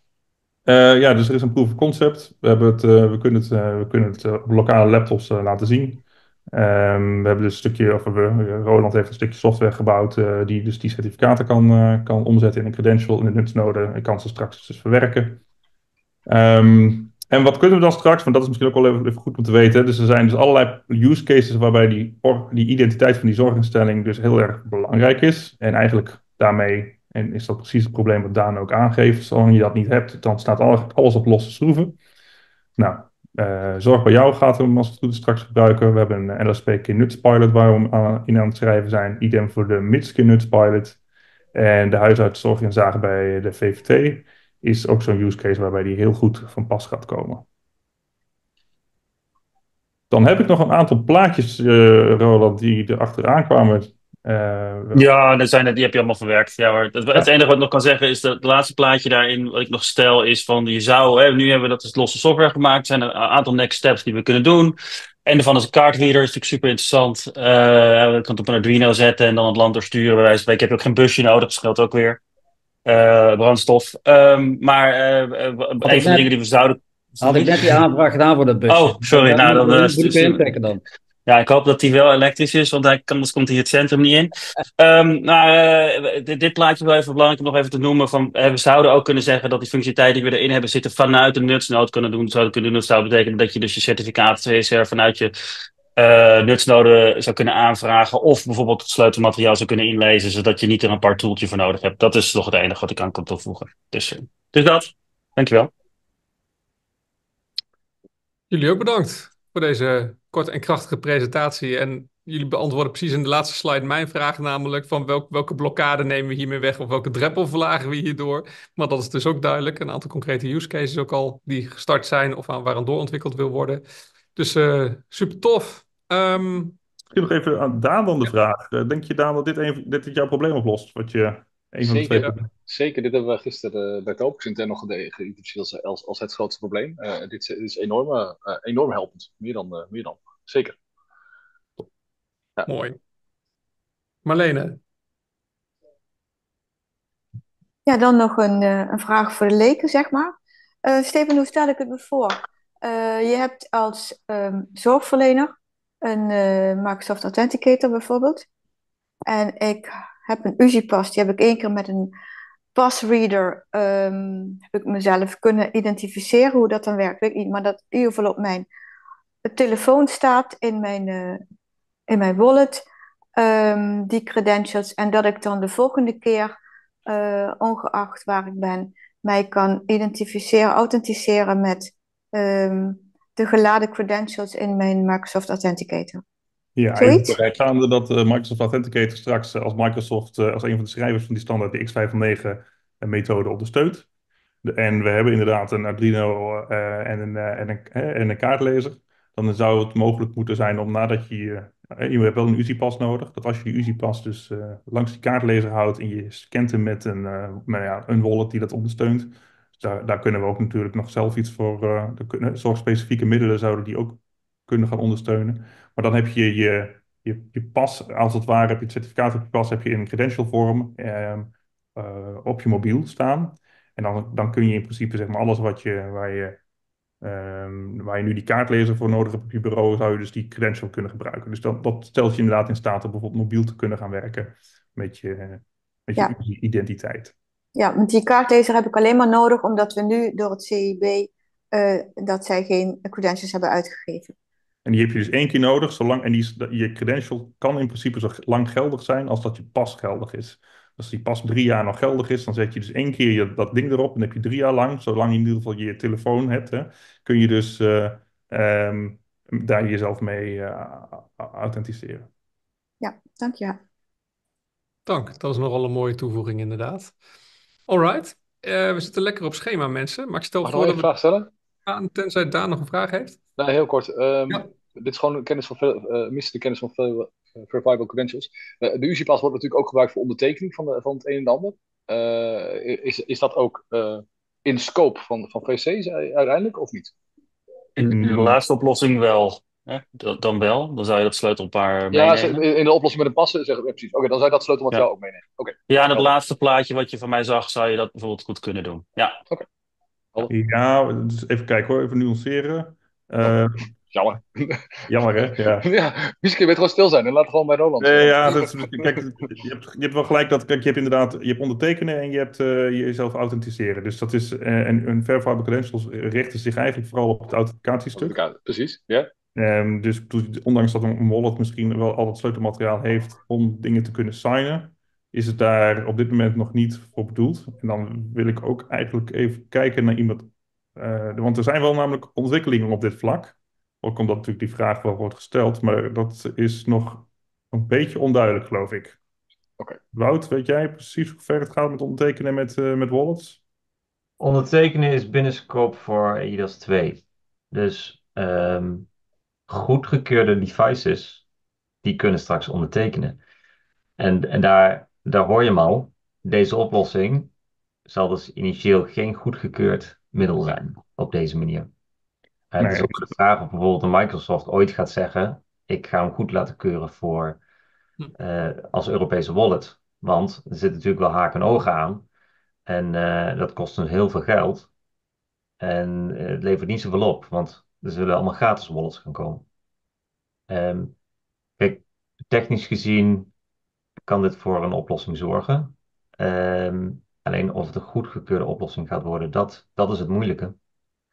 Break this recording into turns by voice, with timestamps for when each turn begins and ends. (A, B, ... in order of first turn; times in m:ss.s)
0:00.6-0:15.4 A
0:16.2-0:32.0 A
0:32.8-0:41.0 A
0:41.5-0:47.4 A
0:50.1-0:55.0 A
0:54.9-1:12.2 B
1:12.8-1:17.8 B
1:15.8-1:16.3 C
1:17.2-1:20.8 C
1:18.7-1:20.5 B
1:21.2-1:35.3 B
1:36.0-1:45.7 B
1:48.5-2:03.8 D
2:04.4-2:06.8 D
2:07.1-2:12.5 A
2:11.8-2:20.8 E
2:22.7-2:23.0 D
2:24.2-2:24.8 D
2:27.8-2:30.3 F
2:30.8-2:35.5 F
2:36.0-2:38.4 F
2:39.3-2:42.1 F
2:42.7-2:48.7 F
2:49.5-2:51.4 F
2:52.1-2:52.8 F
2:53.4-2:56.5 F
2:57.1-3:06.2 F
3:06.8-3:14.0 A
3:07.0-3:07.3 F
3:14.6-3:46.6 A
3:47.2-3:57.3 A
3:57.8-4:04.3 F
4:04.8-4:22.3 A
4:23.0-4:23.8 F
4:25.0-4:27.1 D
4:27.9-4:31.1 D
4:30.6-4:31.5 E
4:31.8-4:33.4 D
4:33.6-4:47.1 E
4:48.0-4:52.6 B
4:48.0-4:48.6 A
4:52.1-4:56.3 E
4:55.9-4:59.4 B
5:00.5-5:03.9 A
5:03.4-5:09.3 E
5:05.1-5:05.8 A
5:08.0-5:18.4 A
5:18.1-5:19.3 E
5:19.6-5:39.2 A
5:40.1-5:43.6 A
5:44.4-5:49.1 G
5:49.7-5:51.4 G
5:52.0-5:53.4 G
5:54.2-5:57.5 G
5:58.1-6:01.9 G
6:02.7-6:07.6 G
6:02.8-6:03.3 A
6:08.4-6:12.2 G
6:12.9-6:14.9 G
6:15.8-6:19.6 G
6:20.7-6:21.1 G
6:21.8-6:23.5 G
6:24.2-6:30.8 G